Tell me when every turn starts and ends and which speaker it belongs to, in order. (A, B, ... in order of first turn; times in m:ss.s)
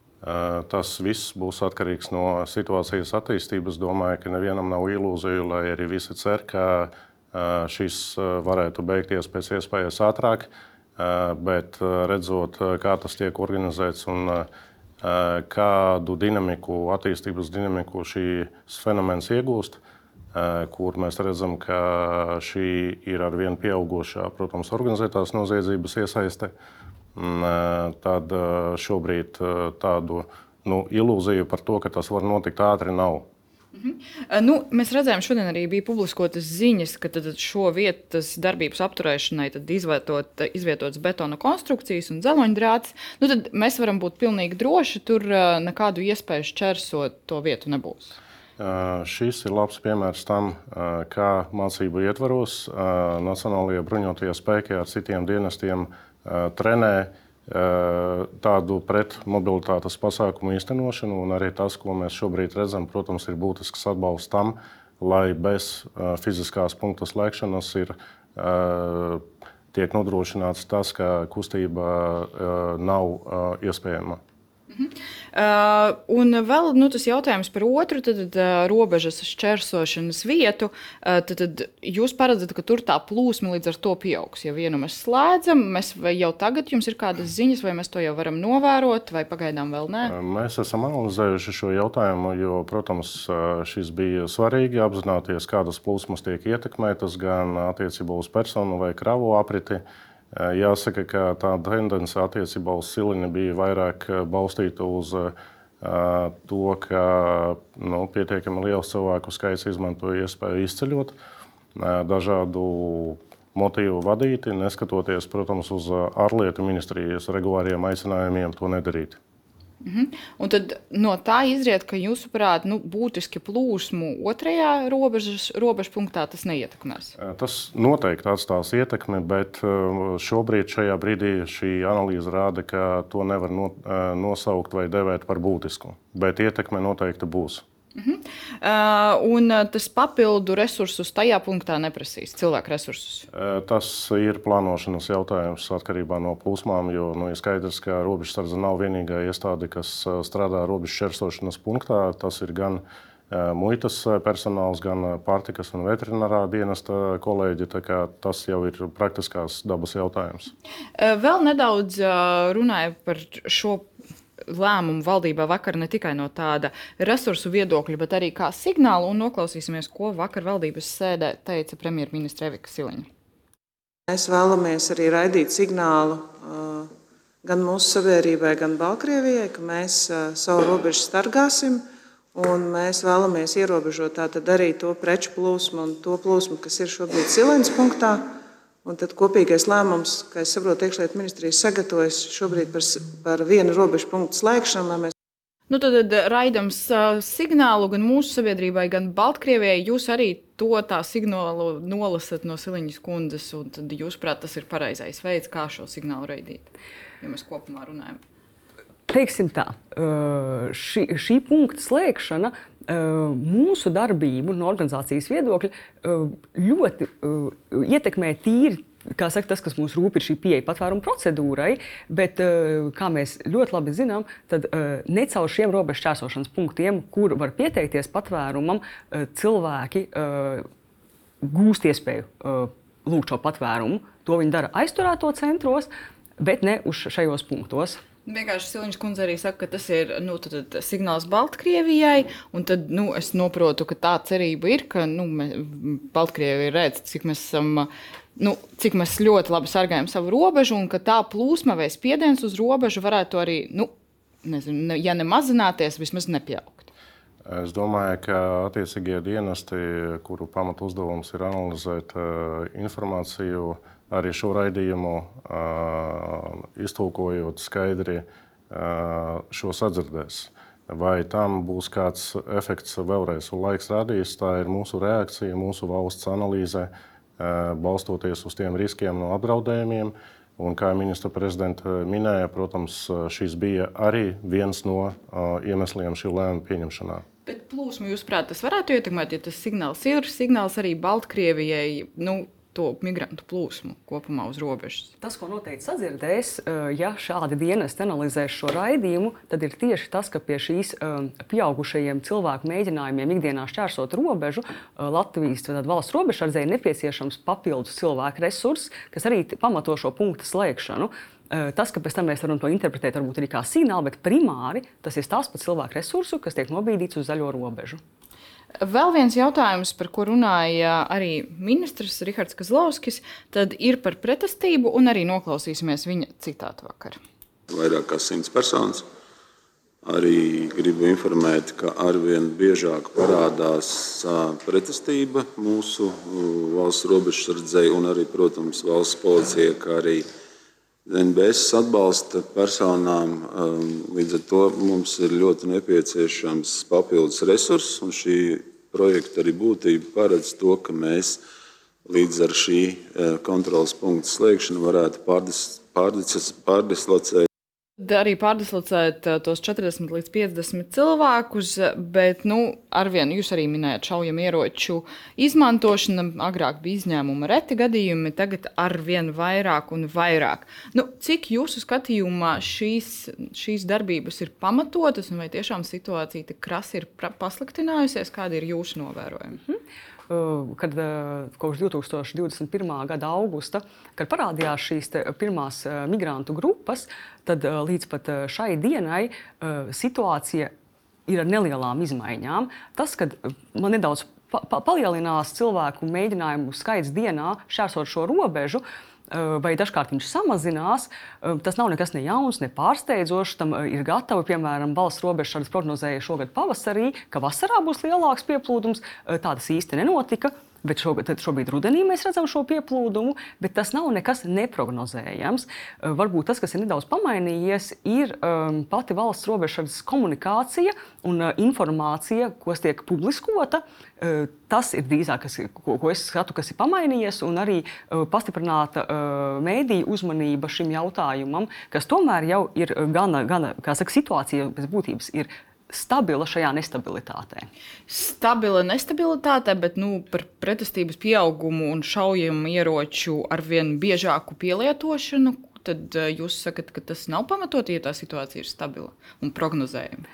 0:00.2-0:14.5 A
0:15.0-0:19.8 A
0:20.3-0:26.5 A
0:27.2-0:33.3 A
0:33.7-0:48.2 B
0:48.6-1:14.2 A
1:14.7-1:30.1 B
1:30.0-1:51.2 A
1:51.8-1:59.2 A
1:59.8-2:07.2 B
2:07.2-2:17.6 A
2:18.0-2:23.3 B
2:23.3-2:40.5 A
2:41.0-2:43.9 B
2:44.4-2:53.1 B
2:54.1-2:56.9 C
2:57.4-3:01.8 C
3:02.3-3:15.1 C
3:15.7-3:26.7 B
3:27.2-3:28.2 B
3:29.1-3:50.7 D
3:51.4-3:58.0 D
3:58.3-4:13.9 B
4:14.4-4:16.9 B
4:17.4-4:47.2 A
4:47.5-4:55.1 B
4:55.2-5:18.0 D
5:18.8-5:27.2 B
5:27.7-5:29.0 E
5:30.0-5:40.3 E
5:41.1-5:51.4 E
5:52.0-5:57.5 E
5:58.0-6:19.6 B
6:19.6-6:30.7 D
6:31.3-7:17.7 D
7:18.1-7:30.2 B